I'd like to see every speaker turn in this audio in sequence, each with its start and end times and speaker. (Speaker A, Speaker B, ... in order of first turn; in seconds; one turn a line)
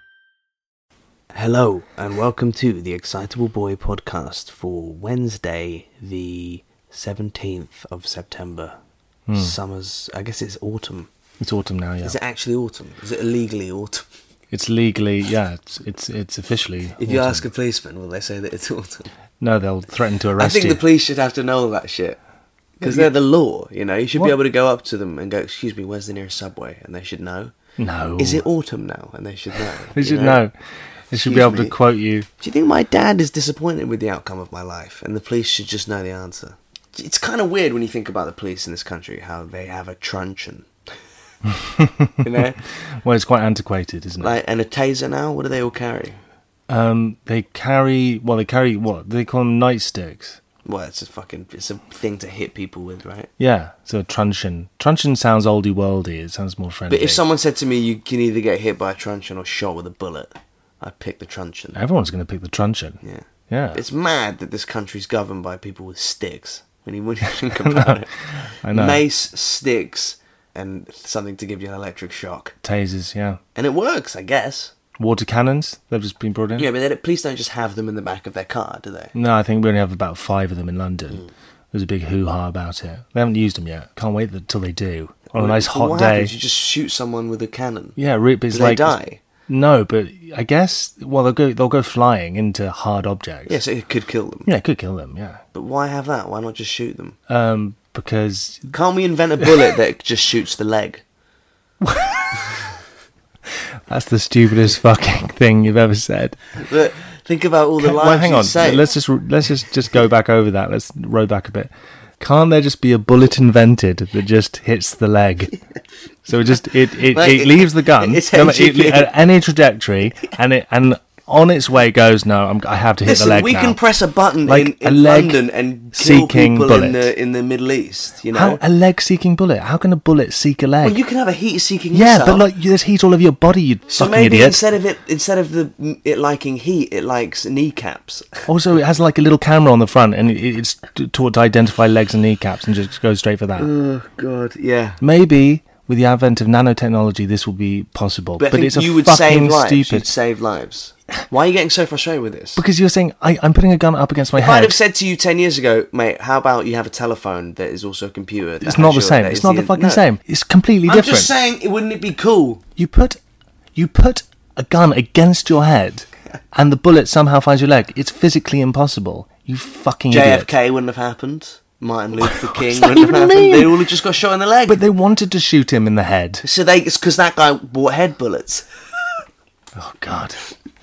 Speaker A: 1.3-8.8
Speaker B: 9.3-9.6
Speaker A: 9.3-11.1
Speaker B: 11.4-12.2
Speaker A: 12.0-14.0
Speaker B: 14.5-17.4
Speaker A: 17.0-19.1
Speaker B: 19.4-20.8
Speaker A: 20.4-22.2
Speaker A: 22.8-27.5
Speaker B: 22.8-23.1
Speaker B: 27.8-28.4
Speaker A: 28.2-30.4
Speaker B: 29.9-30.5
Speaker B: 31.1-32.3
Speaker A: 31.1-31.7
Speaker A: 32.4-40.7
Speaker B: 41.6-42.2
Speaker A: 42.2-42.6
Speaker B: 43.0-44.4
Speaker A: 44.2-46.2
Speaker B: 46.7-50.4
Speaker A: 50.6-53.3
Speaker B: 53.4-57.2
Speaker A: 56.9-61.8
Speaker B: 61.7-63.8
Speaker A: 63.0-68.1
Speaker B: 67.5-69.0
Speaker A: 68.7-72.5
Speaker B: 72.6-73.4
Speaker A: 73.5-74.7
Speaker B: 75.0-76.7
Speaker A: 76.6-79.1
Speaker B: 79.1-86.3
Speaker A: 85.3-88.0
Speaker B: 88.0-89.0
Speaker A: 88.5-89.2
Speaker B: 89.5-93.6
Speaker A: 93.5-94.5
Speaker B: 94.5-95.4
Speaker A: 95.5-97.2
Speaker B: 97.3-98.7
Speaker A: 98.7-101.0
Speaker B: 101.8-102.4
Speaker B: 103.9-106.4
Speaker A: 106.6-108.8
Speaker B: 107.8-115.6
Speaker B: 116.2-123.8
Speaker A: 117.1-119.1
Speaker A: 123.0-128.6
Speaker B: 124.4-125.4
Speaker B: 125.9-127.1
Speaker B: 128.3-131.0
Speaker A: 130.8-132.4
Speaker B: 131.9-134.6
Speaker A: 133.9-138.4
Speaker B: 138.5-143.7
Speaker A: 143.6-145.0
Speaker B: 145.0-150.1
Speaker A: 148.4-152.6
Speaker B: 152.6-154.7
Speaker A: 154.3-160.0
Speaker B: 158.6-161.3
Speaker A: 160.9-162.6
Speaker B: 162.8-163.2
Speaker B: 163.7-170.5
Speaker A: 170.1-174.8
Speaker B: 172.2-173.9
Speaker B: 174.7-176.4
Speaker A: 176.4-178.7
Speaker B: 179.7-180.4